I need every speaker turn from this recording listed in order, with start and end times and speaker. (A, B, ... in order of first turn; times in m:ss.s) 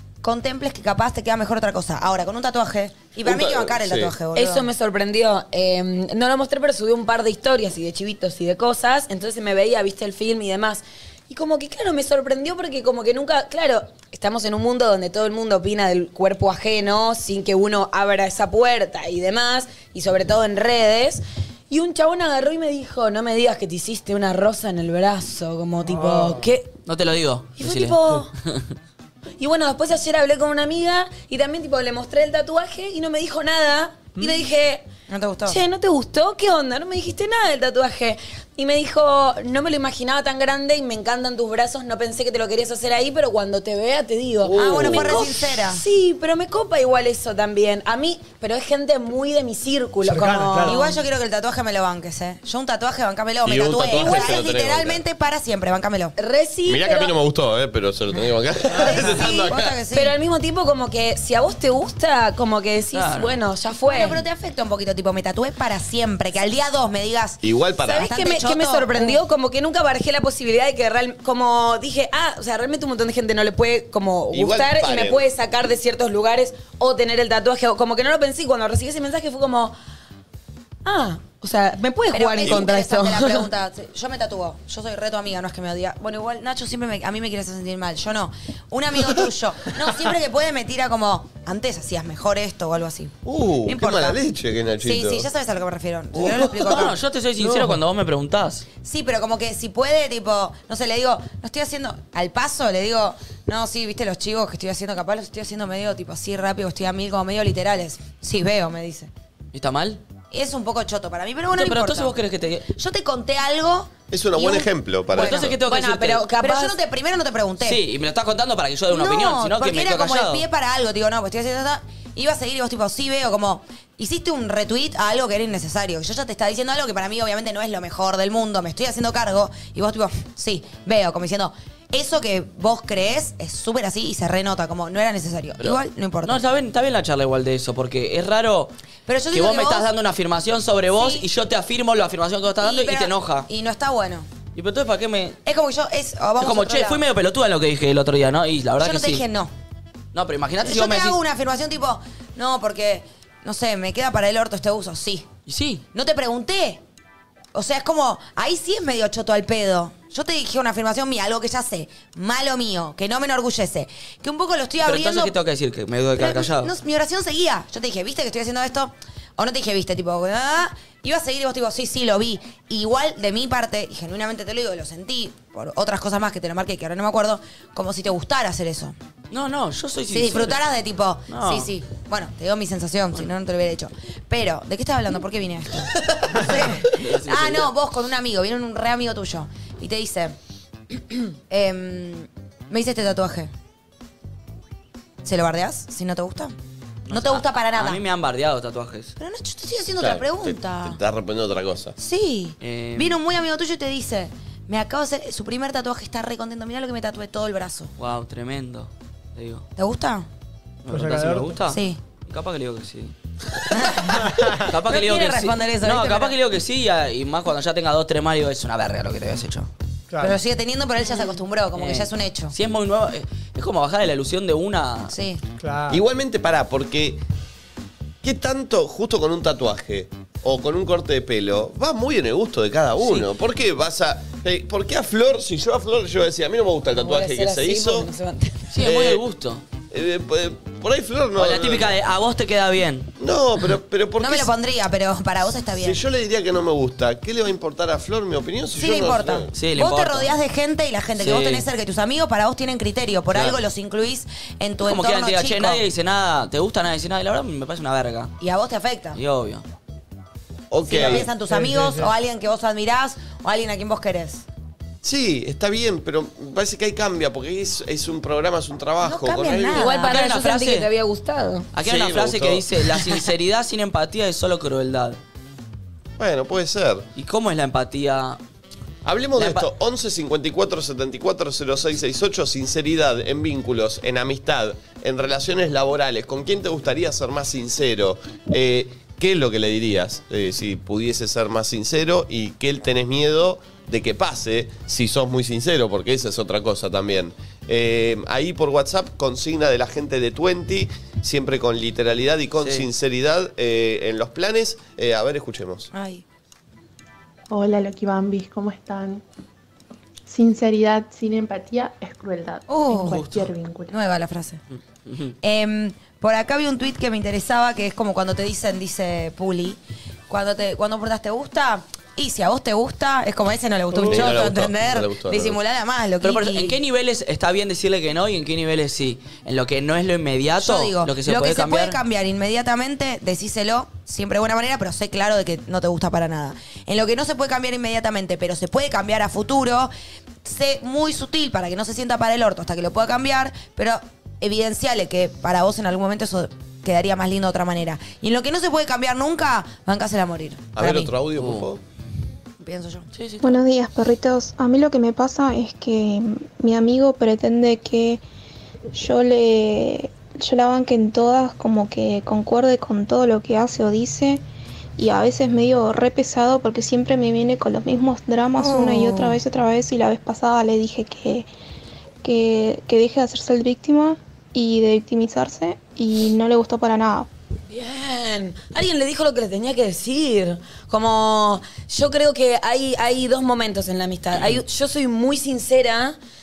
0:00.2-0:04.7 A
0:03.2-0:04.1 B
0:04.3-0:26.7 C
0:25.9-0:26.4 D
0:26.9-0:28.6 E
0:27.6-0:28.3 C
0:29.4-0:34.8 C
0:35.1-0:35.6 A
0:35.5-0:50.9 C
0:44.4-0:45.3 B
0:44.5-0:45.8 A
0:50.0-0:50.9 D
0:50.6-0:56.2 A
0:53.4-0:55.0 B
0:56.2-0:57.1 C
0:56.7-0:59.7 B
0:58.2-1:00.2 A
0:59.9-1:04.2 C
1:02.9-1:03.4 E
1:03.9-1:09.2 A
1:07.4-1:08.1 B
1:07.8-1:19.8 C
1:14.3-1:15.3 B
1:20.8-1:23.5 C
1:22.1-1:33.1 A
1:33.2-1:35.3 B
1:33.6-1:34.2 A
1:34.8-1:37.0 A
1:36.2-1:36.9 B
1:36.4-1:38.7 E
1:38.8-1:49.1 A
1:49.5-1:50.0 E
1:50.3-1:52.2 A
1:51.5-1:52.7 E
1:52.7-1:55.6 A
1:54.1-1:55.6 B
1:55.1-1:56.3 E
1:55.6-1:56.8 C
1:56.4-1:57.8 A
1:57.6-2:00.4 E
1:58.9-2:16.4 A
2:15.6-2:18.7 E
2:19.1-2:19.9 A
2:19.3-2:23.5 E
2:20.9-2:21.3 A
2:22.6-2:24.3 A
2:24.6-2:25.4 E
2:25.4-2:27.0 A
2:26.4-2:29.2 E
2:28.8-2:29.5 A
2:30.1-2:31.2 E
2:30.6-2:35.3 A
2:35.5-2:35.8 E
2:35.9-2:36.8 A
2:37.5-2:45.3 A
2:44.8-2:46.7 E
2:46.2-2:59.0 A
2:59.3-3:00.6 E
3:00.1-3:10.4 A
3:01.3-3:01.7 E
3:06.3-3:07.7 E
3:10.9-3:13.5 A
3:15.2-3:16.6 A
3:17.1-3:19.1 E
3:17.1-3:18.0 A
3:19.2-3:21.0 A
3:20.0-3:22.0 B
3:22.0-3:27.9 A
3:22.6-3:23.2 E
3:28.0-3:29.6 E
3:29.8-3:30.3 A
3:30.8-3:33.1 E
3:30.9-3:31.6 D
3:31.6-3:32.0 A
3:33.7-3:36.4 A
3:34.1-3:39.7 E
3:40.1-3:40.4 D
3:40.2-3:42.6 A
3:41.8-3:45.1 E
3:45.1-3:45.4 A
3:45.6-3:46.0 D
3:45.9-3:47.2 B
3:48.2-3:58.1 B
3:57.0-3:58.7 C
3:58.7-3:59.6 E
3:58.8-3:59.2 B
3:59.9-4:01.9 B
4:01.4-4:03.1 E
4:03.2-4:04.5 B
4:04.2-4:06.0 A
4:05.8-4:09.5 B
4:08.7-4:15.8 A
4:09.6-4:10.4 E
4:11.2-4:11.7 E
4:13.3-4:13.6 B
4:14.8-4:18.3 E
4:18.4-4:19.2 A
4:19.2-4:19.6 E
4:20.7-4:21.3 B
4:20.8-4:24.4 A
4:21.4-4:22.1 D
4:25.0-4:29.9 B
4:29.0-4:30.2 A
4:29.7-4:31.7 C
4:29.9-4:30.9 E
4:31.7-4:35.2 E
4:31.8-4:33.2 B
4:36.2-4:37.1 B
4:37.2-4:38.4 E
4:39.0-5:05.9 B
4:39.4-4:39.7 E
5:02.6-5:02.9 E
5:05.9-5:06.2 A
5:07.5-5:09.2 F
5:10.3-5:13.9 F
5:12.7-5:13.3 A
5:12.9-5:13.5 E
5:13.9-5:14.6 A
5:15.1-5:15.3 E
5:15.4-5:26.8 A
5:24.0-5:25.6 B
5:26.2-5:32.0 E
5:30.6-5:39.9 A
5:40.4-5:51.1 A
5:50.8-5:51.8 B
5:51.4-5:51.7 E
5:52.6-5:53.0 A
5:53.1-5:53.6 E
5:53.4-5:58.2 G
5:58.9-6:04.4 G
6:05.0-6:11.5 G
6:08.6-6:09.4 A
6:12.2-6:17.3 G
6:17.7-6:26.2 C